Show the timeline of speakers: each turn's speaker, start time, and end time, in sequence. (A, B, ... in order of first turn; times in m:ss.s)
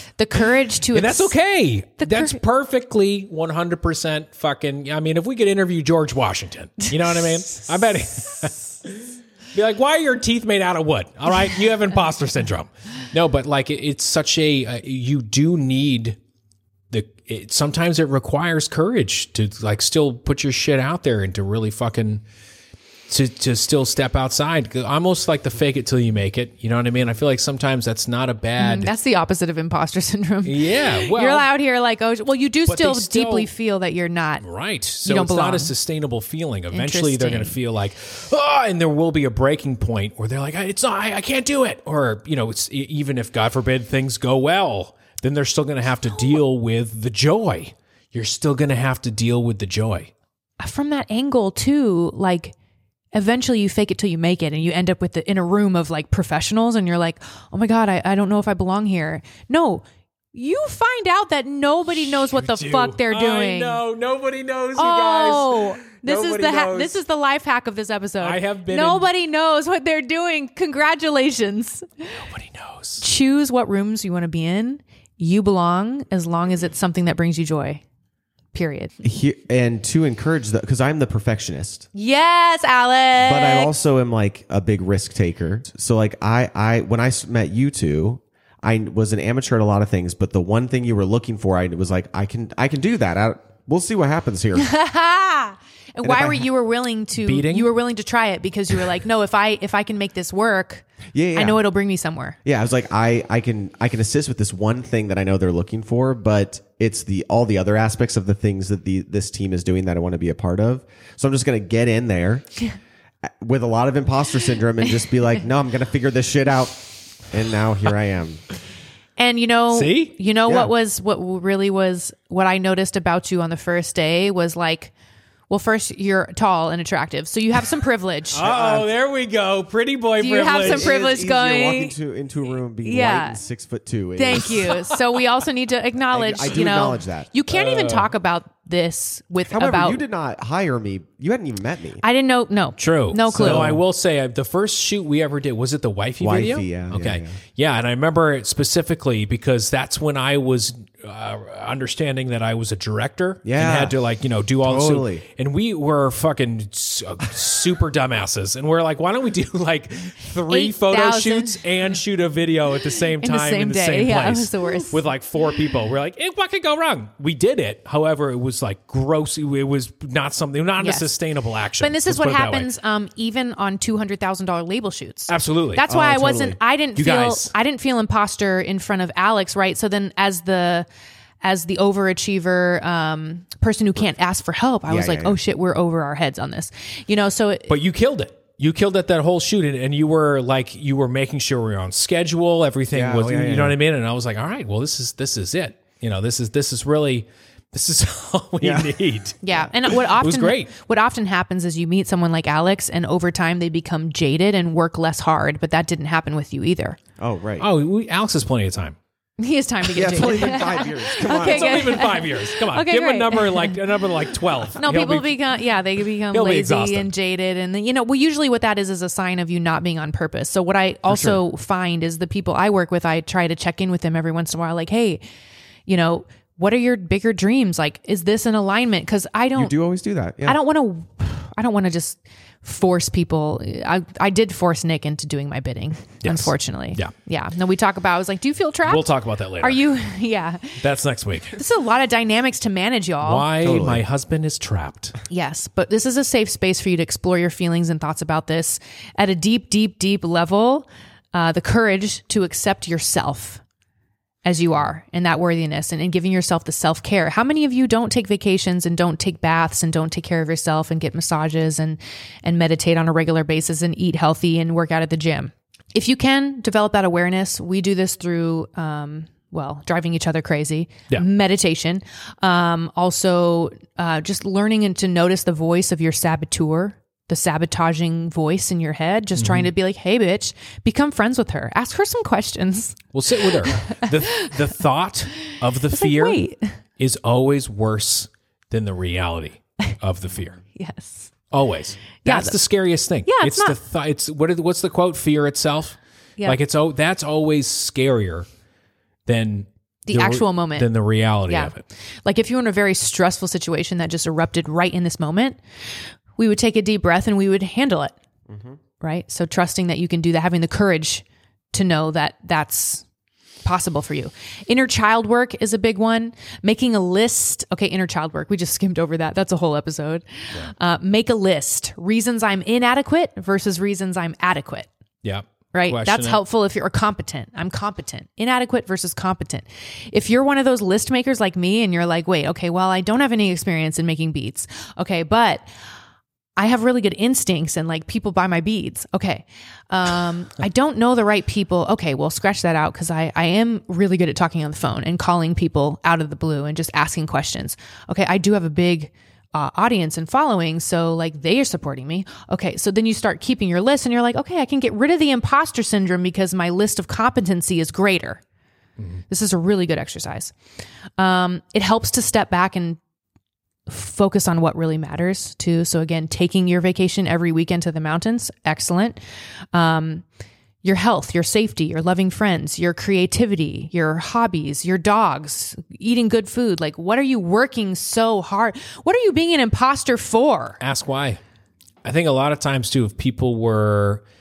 0:00.2-0:01.4 A
0:00.9-0:16.2 B
0:02.0-0:02.4 A
0:16.9-0:22.2 B
0:23.1-0:28.9 B
0:28.6-0:34.4 A
0:30.4-0:31.5 B
0:32.7-0:33.5 B
0:34.4-0:50.1 B
0:35.1-0:35.7 A
0:36.7-0:37.6 A
0:50.6-0:52.6 A
0:53.1-1:03.8 A
1:02.0-1:07.0 B
1:04.8-1:12.2 A
1:08.2-1:09.1 B
1:12.2-1:13.0 B
1:13.0-1:17.8 A
1:18.5-1:18.9 A
1:19.0-1:21.9 C
1:21.9-1:23.7 A
1:23.2-1:34.7 C
1:34.6-1:42.4 A
1:36.0-1:36.5 C
1:37.2-1:37.7 B
1:41.1-1:41.6 C
1:42.4-1:52.6 C
1:53.2-1:58.4 C
1:59.2-2:04.9 A
1:59.7-2:00.1 B
2:00.5-2:00.7 C
2:05.5-2:08.5 A
2:08.3-2:10.9 B
2:08.4-2:08.9 C
2:10.2-2:12.0 A
2:10.6-2:14.7 C
2:12.8-2:13.4 A
2:14.2-2:20.0 A
2:16.1-2:17.3 C
2:17.5-2:18.1 B
2:19.5-2:22.0 C
2:22.0-2:23.8 A
2:22.8-2:52.7 B
2:23.4-2:23.8 C
2:26.2-2:27.4 C
2:33.4-2:34.0 C
2:34.6-2:35.2 C
2:40.5-2:41.6 A
2:43.2-2:45.0 A
2:50.8-2:51.1 A
2:51.8-3:00.9 A
2:55.3-2:55.8 B
2:55.9-2:56.6 C
2:57.0-2:57.5 B
3:01.4-3:07.7 A
3:04.9-3:05.4 C
3:07.7-3:20.7 B
3:12.9-3:13.8 C
3:18.6-3:18.9 C
3:19.4-3:27.0 A
3:27.2-3:27.7 C
3:27.6-3:29.0 B
3:29.4-3:33.8 A
3:29.9-3:32.0 C
3:31.2-3:35.5 B
3:34.7-3:45.2 A
3:36.3-3:37.1 B
3:41.1-3:41.4 C
3:45.9-3:49.7 A
3:49.6-3:50.6 C
3:50.4-3:59.1 A
3:56.2-3:57.1 B
3:58.9-3:59.9 B
3:59.6-4:00.8 A
4:00.8-4:01.6 B
4:01.5-4:03.5 A
4:03.2-4:05.2 B
4:03.6-4:04.0 C
4:05.3-4:13.6 A
4:14.4-4:44.5 A
4:39.4-4:39.7 B
4:43.1-4:46.5 B
4:45.5-4:46.8 A
4:47.0-4:50.6 B
4:50.7-4:51.3 A
4:51.5-4:58.5 B
4:52.2-4:52.6 A
4:53.3-4:53.8 A
4:59.3-5:01.8 B
5:00.1-5:00.9 A
5:01.5-5:01.7 A
5:02.2-5:05.6 A
5:06.4-5:08.2 A
5:08.5-5:08.8 C
5:09.0-5:13.0 A
5:13.6-5:24.9 A
5:25.2-5:26.4 B
5:25.7-5:35.6 A
5:36.6-5:58.4 A
5:59.3-6:00.5 A
6:01.2-6:03.0 A
6:03.9-6:09.2 A
6:09.7-6:10.3 A
6:10.8-6:20.8 A
6:20.8-6:21.4 B
6:22.0-6:24.2 B